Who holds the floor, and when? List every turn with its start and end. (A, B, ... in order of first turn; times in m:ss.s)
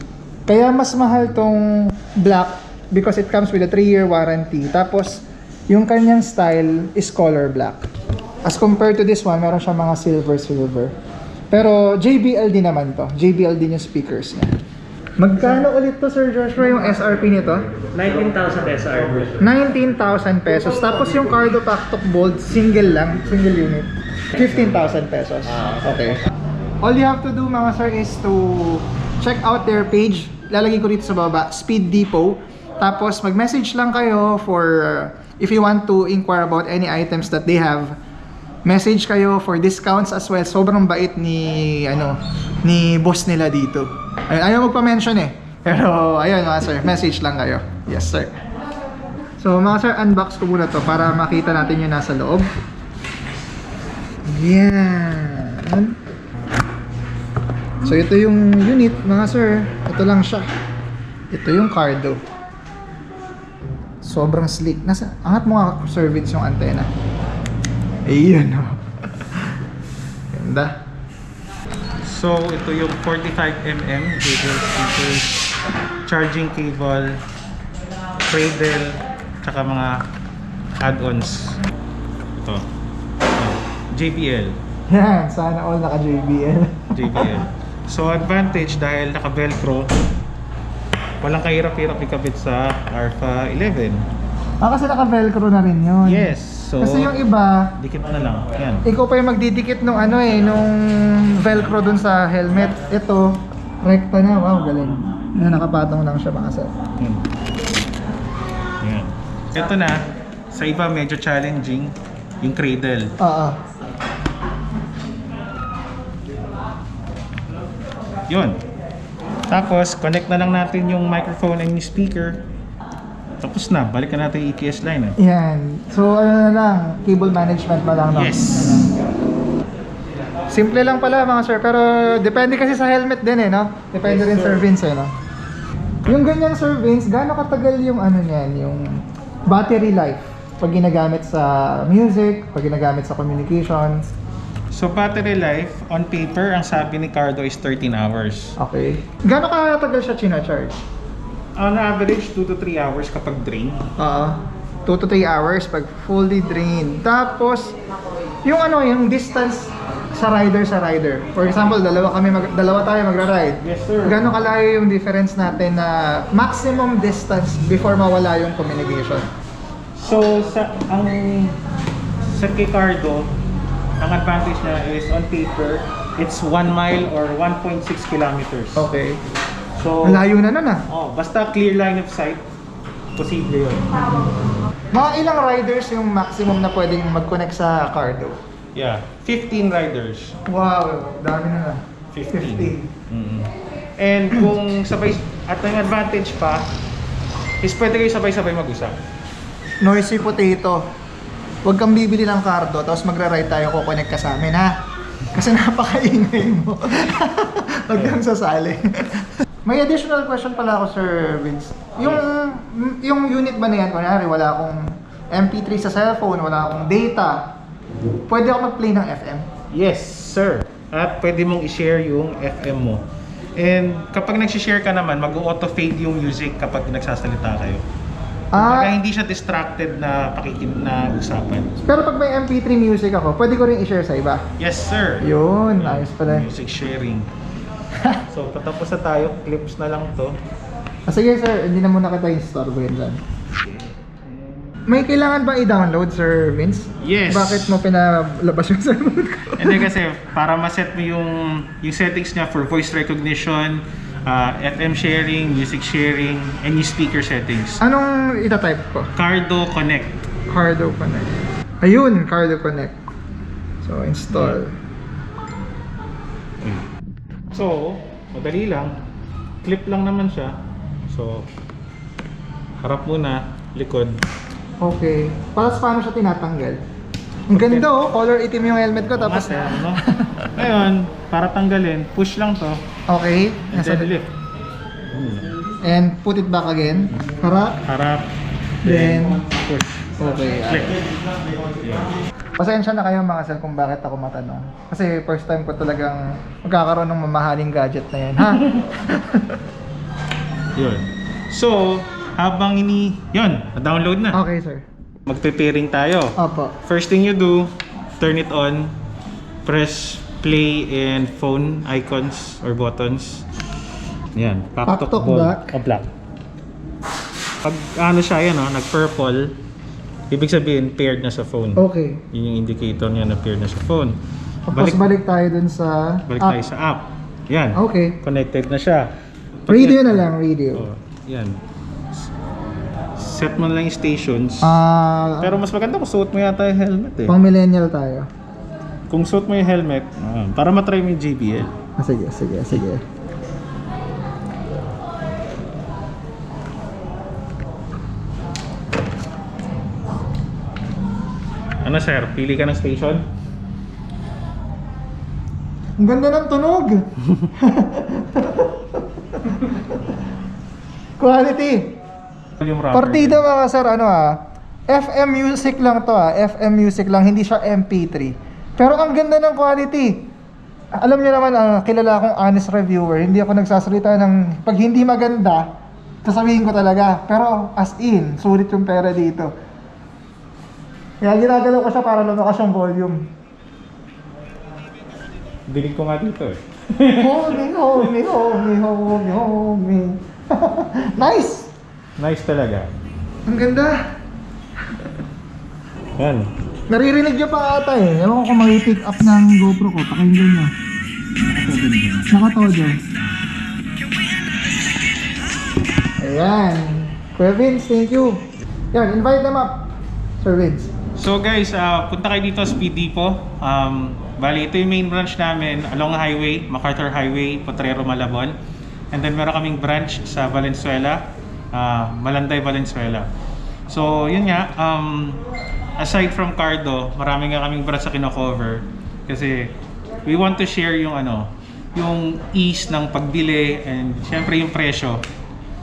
0:00.5-0:07.8 A
0:08.4-0:10.9 A
0:11.5-0:14.5 A
0:15.2-0:17.7 A
0:17.9-0:19.4 B
0:19.4-0:26.2 A
0:26.8-0:38.0 A
0:38.6-0:48.3 A
0:49.4-0:52.5 A
0:54.3-0:56.0 A
0:57.8-1:00.4 A
1:01.3-1:02.2 A
1:04.0-1:06.9 A
1:08.0-1:09.6 A
1:10.3-1:10.7 A
1:12.0-1:15.5 B
1:16.0-1:17.2 B
1:18.2-1:20.0 B
1:20.8-1:21.6 B
1:22.4-1:22.6 B
1:23.3-1:24.6 B
1:24.9-1:27.4 A
1:26.9-1:29.9 B
1:31.2-1:34.0 B
1:34.6-1:37.7 A
1:36.0-1:37.1 B
1:37.8-1:38.8 B
1:38.8-1:43.3 A
1:43.8-1:46.7 A
1:47.0-1:47.2 B
1:48.8-1:50.0 B
1:50.5-1:53.1 B
1:53.2-1:53.6 A
1:58.3-1:58.6 B
1:59.5-2:02.4 B
2:03.4-2:05.2 B
2:05.2-2:09.0 A
2:08.1-2:09.0 B
2:10.5-2:15.1 A
2:14.0-2:14.7 B
2:16.0-2:24.1 A
2:24.7-2:28.5 B
2:28.6-2:30.8 A
2:31.6-2:33.8 B
2:34.0-2:37.7 A
2:38.4-2:49.3 A
2:43.6-2:44.4 B
2:50.0-2:51.6 B
2:52.3-2:53.3 B
2:54.0-2:58.9 B
2:58.8-2:59.2 A
2:59.8-3:00.2 B
3:00.0-3:00.8 A
3:00.9-3:02.4 B
3:03.2-3:04.0 B
3:04.9-3:08.4 A
3:08.7-3:10.4 B
3:10.4-3:11.8 A
3:12.1-3:16.7 B
3:12.3-3:12.9 A
3:17.6-3:19.0 B
3:19.8-3:20.8 A
3:21.6-3:24.7 A
3:25.3-3:37.5 A
3:27.9-3:28.2 B
3:32.0-3:32.2 B
3:38.3-3:39.4 A
3:39.7-3:43.0 B
3:43.6-3:47.8 B
3:48.5-3:49.0 A
3:48.5-3:51.7 B
3:51.8-3:54.4 A
3:54.6-3:55.2 B
3:55.2-3:56.5 A
3:55.8-3:57.3 B
3:58.3-4:00.4 B
4:01.1-4:03.2 A
4:03.6-4:04.2 B
4:04.9-4:09.8 A
4:07.0-4:07.8 B
4:09.6-4:17.8 B
4:17.8-4:19.1 A
4:19.2-4:20.2 B
4:20.5-4:21.3 A
4:21.8-4:23.0 A
4:23.8-4:24.7 A
4:24.3-4:24.6 B
4:26.6-4:26.9 B
4:27.5-4:28.9 B
4:29.6-4:30.6 B
4:31.1-4:31.5 B
4:32.8-4:34.2 B
4:34.8-4:36.8 A
4:37.5-4:40.5 A
4:37.5-4:37.9 B
4:39.2-4:40.0 B
4:40.5-4:42.8 B
4:43.1-4:44.1 A
4:43.7-4:44.3 B
4:45.1-4:45.5 B
4:45.8-4:47.8 A
4:47.8-4:48.3 B
4:48.8-4:49.4 A
4:48.8-4:50.2 B
4:50.2-4:51.0 A
4:50.7-4:51.0 B
4:51.8-4:52.2 B
4:52.6-4:59.6 A
5:00.8-5:04.4 B
5:04.3-5:04.8 A
5:05.2-5:09.0 B
5:06.4-5:06.8 A
5:09.6-5:13.5 B
5:14.3-5:16.1 B
5:14.8-5:15.7 A
5:17.6-5:19.5 B
5:20.3-5:24.2 B
5:21.8-5:22.2 A
5:24.7-5:26.6 A
5:24.7-5:25.0 B
5:26.3-5:29.1 B
5:27.7-5:28.2 A
5:29.7-5:31.6 B
5:29.7-5:30.8 A
5:33.2-5:34.8 B
5:34.6-5:35.6 A
5:35.4-5:37.3 B
5:37.3-5:38.3 A
5:39.1-5:41.7 B
5:42.0-5:43.0 A
5:51.8-5:53.3 B
5:56.0-6:00.0 A
6:01.2-6:01.8 A
6:02.6-6:03.4 B
6:02.9-6:04.4 A
6:04.9-6:10.3 A
6:11.0-6:15.7 A
6:16.2-6:19.5 A
6:21.2-6:23.3 A
6:25.7-6:28.1 B
6:27.1-6:31.7 A
6:32.2-6:32.9 B
6:33.4-6:34.0 A
6:36.2-6:36.5 B
6:36.9-6:40.7 A
6:41.5-6:42.3 B
6:42.2-6:43.0 A
6:46.2-6:48.4 A
6:48.9-6:49.9 A
6:50.4-6:50.9 A
6:51.2-6:58.5 B
6:59.1-7:03.3 B
7:03.9-7:05.4 B
7:06.0-7:09.7 B
7:10.2-7:15.2 B